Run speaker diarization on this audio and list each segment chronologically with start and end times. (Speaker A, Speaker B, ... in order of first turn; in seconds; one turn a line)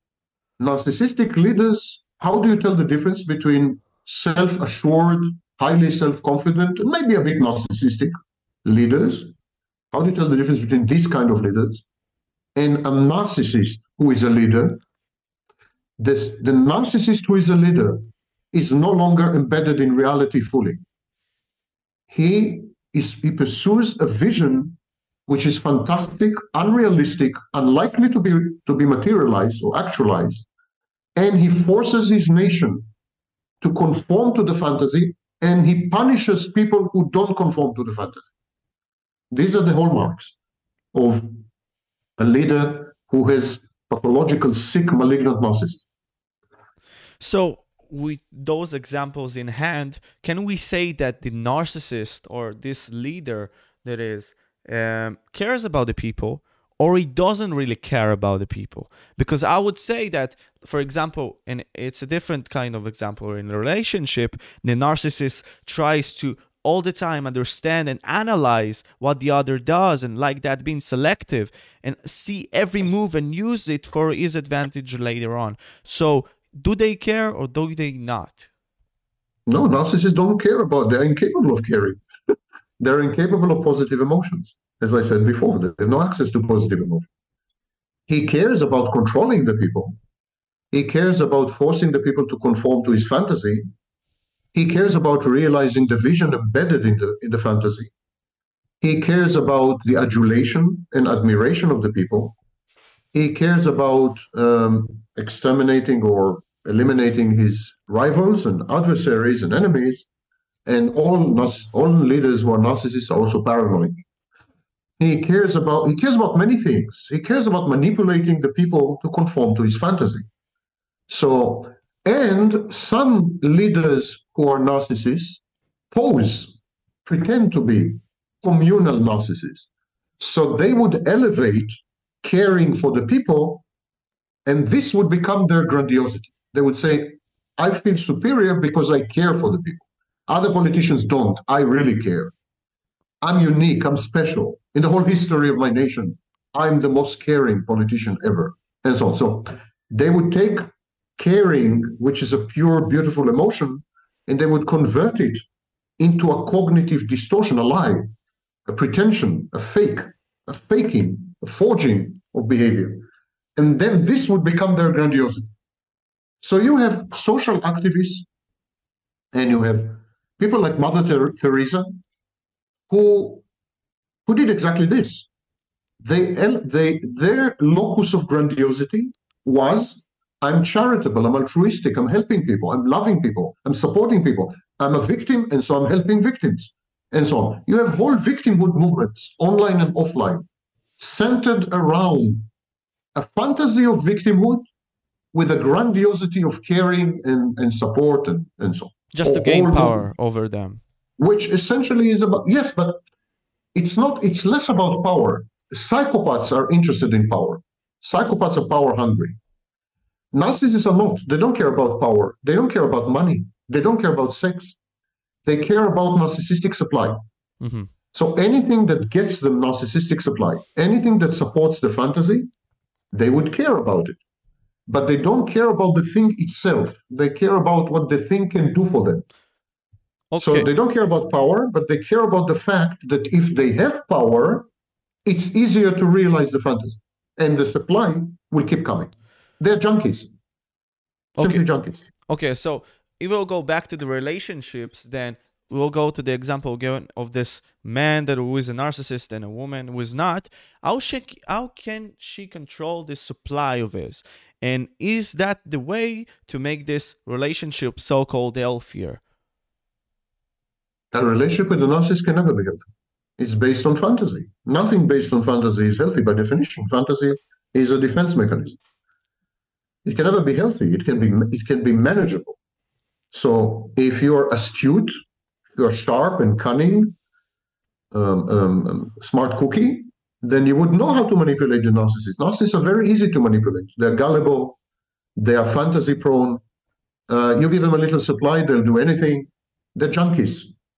Speaker A: 0.6-8.1
Speaker A: 8.6-9.3
Speaker A: 9.9-11.8
Speaker A: 12.6-14.8
Speaker A: 16.0-20.8
Speaker A: 22.1-30.5
Speaker A: 31.1-32.9
Speaker A: 33.6-38.3
Speaker A: 39.3-40.3
Speaker A: 40.9-41.4
Speaker A: 42.2-45.8
Speaker B: 47.2-78.5
Speaker A: 79.5-82.0
Speaker A: 82.8-87.1
Speaker A: 88.1-90.0
Speaker A: 90.7-93.6
Speaker A: 94.5-97.9
Speaker A: 98.8-102.4
Speaker A: 103.1-110.1
Speaker A: 110.7-114.0
Speaker A: 115.0-120.3
Speaker A: 121.1-129.7
Speaker A: 130.2-133.7
Speaker A: 134.4-142.3
Speaker A: 143.2-150.7
Speaker A: 151.2-155.4
Speaker A: 156.0-158.1
Speaker A: 158.7-165.5
Speaker A: 166.4-168.2
Speaker A: 169.3-171.9
Speaker A: 172.9-173.4
Speaker A: 174.2-175.3
Speaker A: 176.0-190.5
Speaker A: 191.0-192.5
Speaker A: 193.1-194.6
Speaker A: 195.3-200.0
Speaker B: 199.1-200.8
Speaker A: 201.2-203.0
Speaker A: 203.7-209.4
Speaker A: 210.3-214.8
Speaker A: 215.4-217.2
Speaker B: 217.6-217.9
Speaker A: 218.1-222.5
Speaker A: 223.1-224.2
Speaker A: 224.9-229.2
Speaker B: 230.3-230.7
Speaker A: 230.4-234.7
Speaker A: 235.2-240.3
Speaker B: 241.4-241.6
Speaker A: 241.4-242.0
Speaker B: 242.3-259.2
Speaker A: 261.1-262.8
Speaker A: 263.4-268.8
Speaker A: 270.0-272.6
Speaker A: 273.3-275.1
Speaker A: 275.8-277.1
Speaker A: 278.1-284.8
Speaker A: 285.4-286.6
Speaker A: 287.3-290.7